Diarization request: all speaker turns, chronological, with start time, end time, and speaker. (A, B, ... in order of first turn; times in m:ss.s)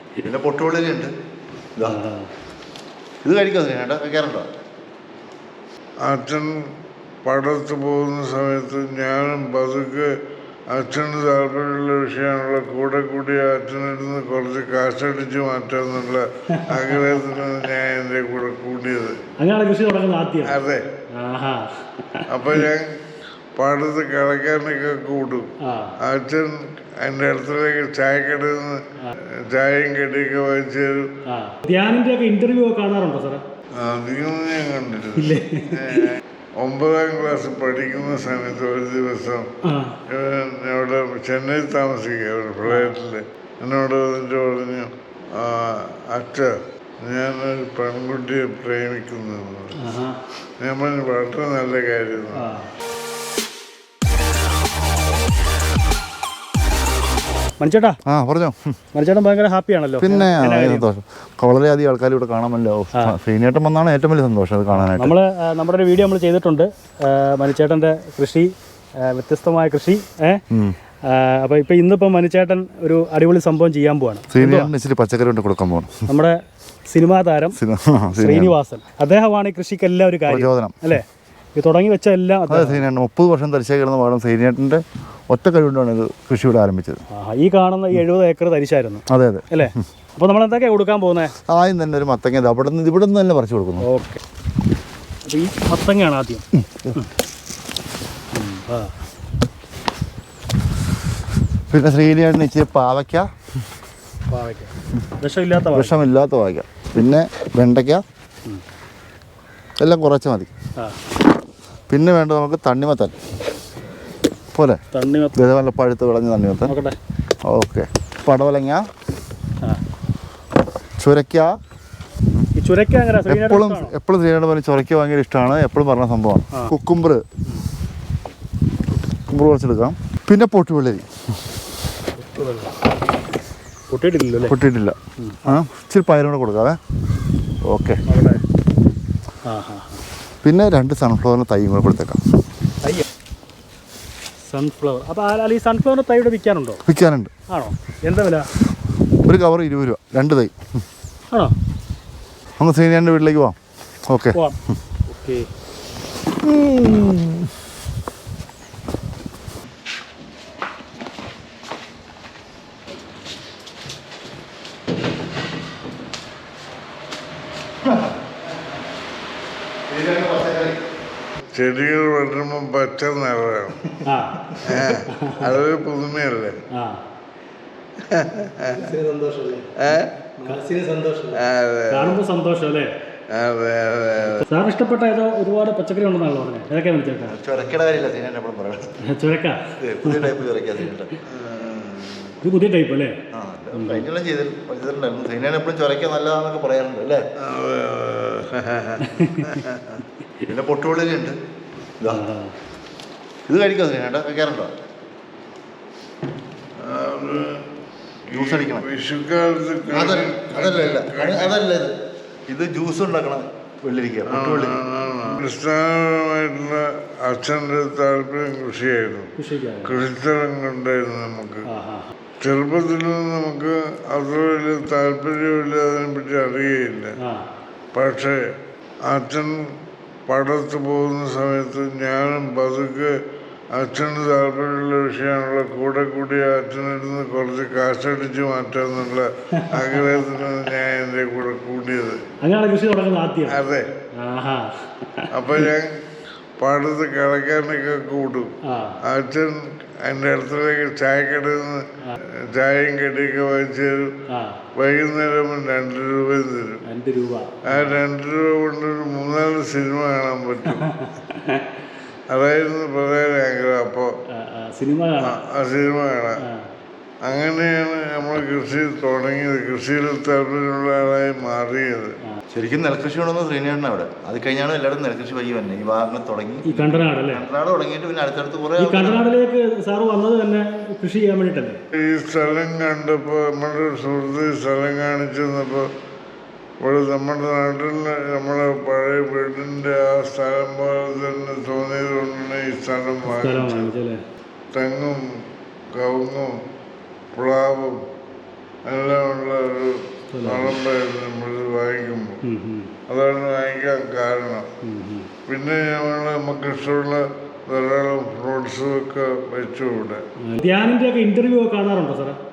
0:00.2-0:01.1 A
0:01.9-0:02.3 B
0:03.2-0:04.5 A
0:06.0-0:06.6 C
0:07.2-0:10.1 C
0:10.7-0:19.2 C
0:16.5-0:17.2 B
0:19.4-0:22.6 B
0:20.4-0:20.9 C
0:22.3-0:23.0 C
0:23.6-0:31.2 C
0:25.6-0:26.0 B
0:31.3-0:33.4 B
0:33.8-0:39.5 C
0:35.2-0:36.1 B
0:39.6-0:40.0 B
0:40.1-0:49.8 C
0:42.7-0:43.0 B
0:49.8-0:50.2 B
0:50.6-0:52.5 C
0:52.3-0:52.7 B
0:57.6-0:58.0 B
0:58.1-0:58.8 A
0:58.9-1:00.9 B
1:00.0-1:05.1 A
1:04.7-1:10.4 B
1:10.5-1:10.8 A
1:11.1-1:14.7 B
1:14.3-1:16.0 A
1:16.1-1:17.6 B
1:17.6-1:18.6 A
1:18.1-1:22.8 B
1:20.3-1:20.8 A
1:22.5-1:27.0 A
1:27.1-1:31.4 B
1:29.1-1:29.4 A
1:31.5-1:33.8 A
1:33.9-1:34.2 B
1:35.2-1:37.1 B
1:36.6-1:37.0 A
1:38.3-1:38.9 B
1:41.7-1:43.3 A
1:44.3-1:46.0 B
1:45.7-1:48.0 A
1:49.8-1:50.5 A
1:51.9-1:53.1 A
1:54.5-1:54.8 A
1:54.9-1:55.4 B
1:55.3-1:56.8 A
1:56.6-1:57.0 B
1:57.4-1:58.9 A
2:01.0-2:01.6 A
2:02.6-2:04.0 B
2:03.3-2:07.2 A
2:09.3-2:11.1 A
2:12.2-2:12.8 B
2:13.9-2:14.6 B
2:14.4-2:16.8 A
2:15.2-2:15.6 B
2:17.7-2:18.0 A
2:18.1-2:18.4 B
2:19.4-2:20.0 B
2:20.4-2:22.2 A
2:24.5-2:26.8 B
2:26.9-2:27.3 A
2:27.5-2:28.5 B
2:29.2-2:30.6 A
2:32.6-2:33.6 A
2:34.1-2:34.4 A
2:35.1-2:35.5 B
2:36.3-2:37.5 A
2:49.9-2:50.8 A
2:51.5-2:53.9 C
2:54.0-2:55.5 B
2:54.6-2:56.6 C
2:56.7-2:57.0 B
2:58.0-2:59.0 C
2:58.8-2:59.8 B
2:59.8-3:00.5 C
3:00.4-3:01.4 B
3:01.3-3:02.2 C
3:01.9-3:02.9 B
3:03.3-3:04.5 C
3:04.2-3:07.4 B
3:07.3-3:09.0 A
3:09.0-3:10.3 B
3:09.8-3:11.2 A
3:11.3-3:12.4 C
3:12.4-3:13.2 B
3:13.3-3:17.2 A
3:13.8-3:14.0 B
3:17.4-3:20.0 C
3:19.0-3:19.5 B
3:20.4-3:21.4 A
3:22.0-3:22.3 A
3:22.1-3:22.6 B
3:23.5-3:24.7 A
3:26.8-3:27.6 C
3:28.3-3:31.6 C
3:28.3-3:28.9 A
3:29.9-3:31.9 A
3:32.5-3:34.8 A
3:34.3-3:41.7 C
3:39.4-3:40.0 B
3:41.7-3:42.1 B
3:42.4-3:47.1 C
3:47.2-3:47.5 B
3:47.9-3:48.4 C
3:49.0-3:49.7 C
3:50.3-3:53.2 C
3:53.7-4:02.2 C
3:59.6-4:00.2 B
4:02.4-4:03.6 B
4:03.5-4:03.9 C
4:04.2-4:05.7 B
4:05.3-4:06.0 C
4:06.6-4:14.2 C
4:08.6-4:09.0 B
4:14.3-4:14.6 B
4:14.8-4:16.8 C
4:16.8-4:18.0 B
4:17.6-4:20.9 C
4:20.7-4:21.8 B
4:22.3-4:24.1 C
4:24.3-4:25.4 B
4:25.2-4:26.4 C
4:26.4-4:26.7 B
4:27.2-4:32.2 C
4:32.5-4:39.2 A
4:36.6-4:37.5 B
4:38.8-4:41.8 B
4:42.0-4:45.9 C
4:46.8-4:53.9 C
4:53.3-4:54.2 B
4:54.7-4:56.6 C
4:57.4-4:58.0 C
4:58.8-5:02.4 C
5:00.3-5:00.8 B
5:02.4-5:02.9 B
5:03.1-5:04.7 C
5:04.8-5:05.3 B
5:05.5-5:10.2 C
5:10.4-5:12.4 B